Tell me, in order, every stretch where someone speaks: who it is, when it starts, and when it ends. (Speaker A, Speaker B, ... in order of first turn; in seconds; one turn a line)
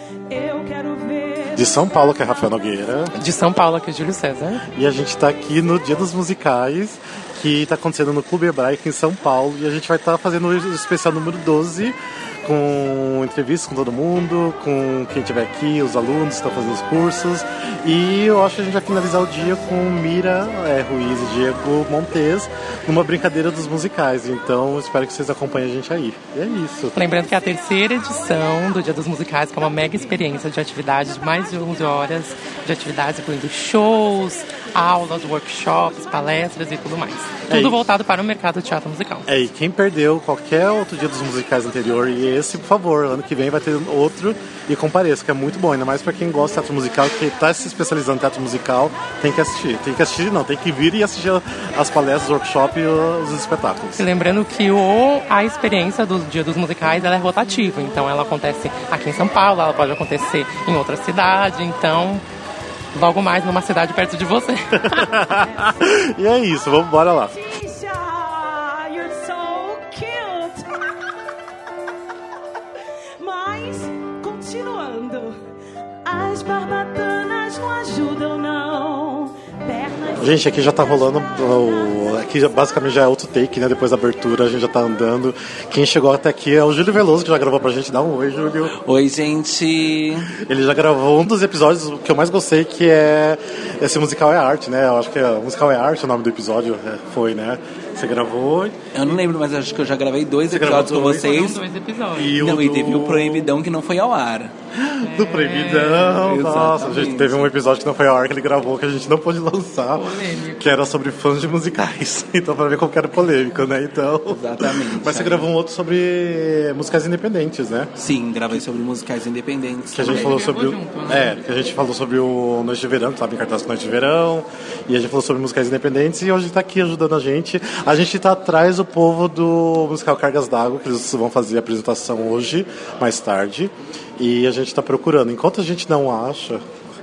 Speaker A: 0.3-2.4
Speaker B: 1.5-3.1
Speaker C: 3.1-4.6
Speaker B: 4.7-27.0
Speaker C: 26.9-39.3
Speaker B: 37.5-37.8
Speaker B: 39.3-54.1
Speaker C: 54.0-62.2
Speaker C: 62.9-65.2
Speaker B: 64.8-67.3
Speaker A: 67.2-70.8
Speaker A: 73.2-75.4
Speaker A: 76.0-82.2
Speaker B: 80.2-88.7
Speaker D: 88.8-90.3
Speaker B: 90.3-98.8
Speaker D: 98.9-101.6
Speaker B: 100.5-101.4
Speaker C: 101.2-102.4
Speaker B: 102.1-103.5
Speaker D: 102.3-104.5
Speaker B: 104.7-117.9
Speaker C: 105.0-106.2
Speaker D: 106.2-107.5
Speaker C: 109.9-110.7
Speaker D: 114.3-115.5
Speaker D: 118.0-120.4
Speaker B: 119.9-136.6
Speaker C: 120.0-121.4